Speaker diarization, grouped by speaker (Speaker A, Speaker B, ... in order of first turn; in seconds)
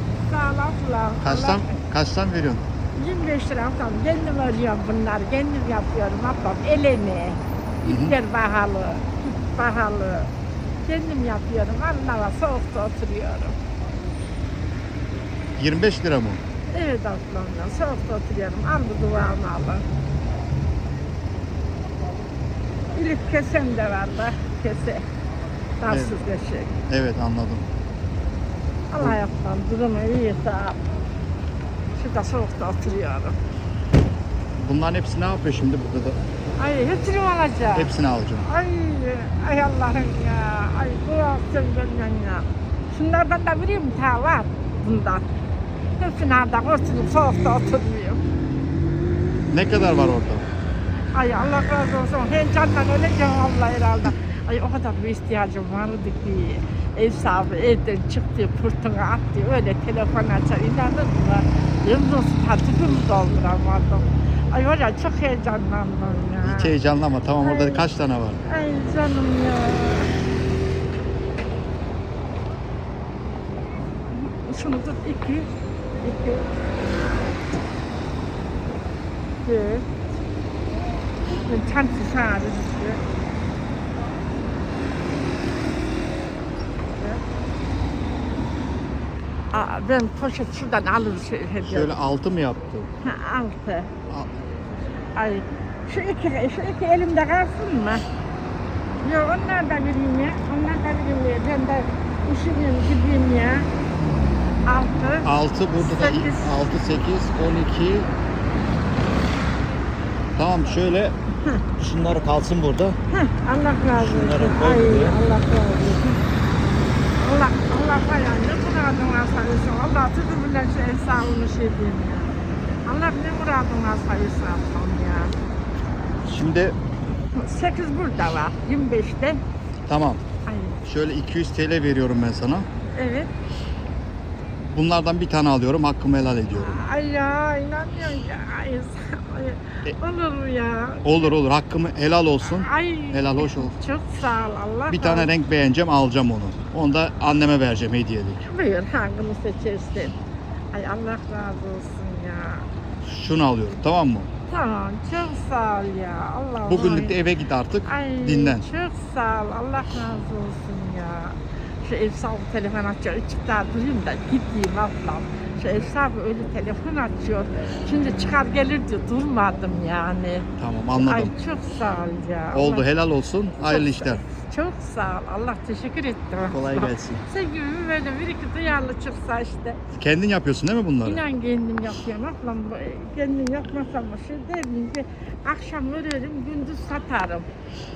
Speaker A: 0.2-1.8, 3.0-10.3, 10.8-13.6, 16.7-19.8, 22.9-25.0, 25.8-26.7, 28.9-30.8, 31.9-33.4, 36.6-45.3, 46.0-48.2, 51.1-66.7, 67.4-67.9, 68.5-70.1, 74.1-76.5, 79.4-79.9, 81.4-83.0, 89.5-91.9, 93.0-93.9, 95.2-98.0, 99.0-103.7, 104.7-106.5, 113.1-116.2, 117.2-125.3, 127.3-129.4, 130.5-130.8, 132.9-133.3, 136.5-141.3, 142.4-145.3, 148.4-150.2, 150.7-152.7, 154.5-157.2, 157.8-172.9, 173.7-179.8, 181.0-187.5
Speaker B: 1.2-2.6, 7.8-8.2, 15.6-16.4, 25.9-26.2, 26.9-27.7, 34.6-36.2, 37.7-38.5, 49.5-50.5, 66.4-68.4, 91.7-92.9, 105.2-108.1, 110.4-111.2, 111.8-113.0, 113.9-115.2, 126.2-126.8, 129.9-130.2, 130.8-132.7, 134.7-136.8, 141.0-143.8, 144.9-148.4, 153.0-154.3, 156.7-158.7, 170.6-171.3, 172.5-174.2, 176.5-177.2, 179.9-181.2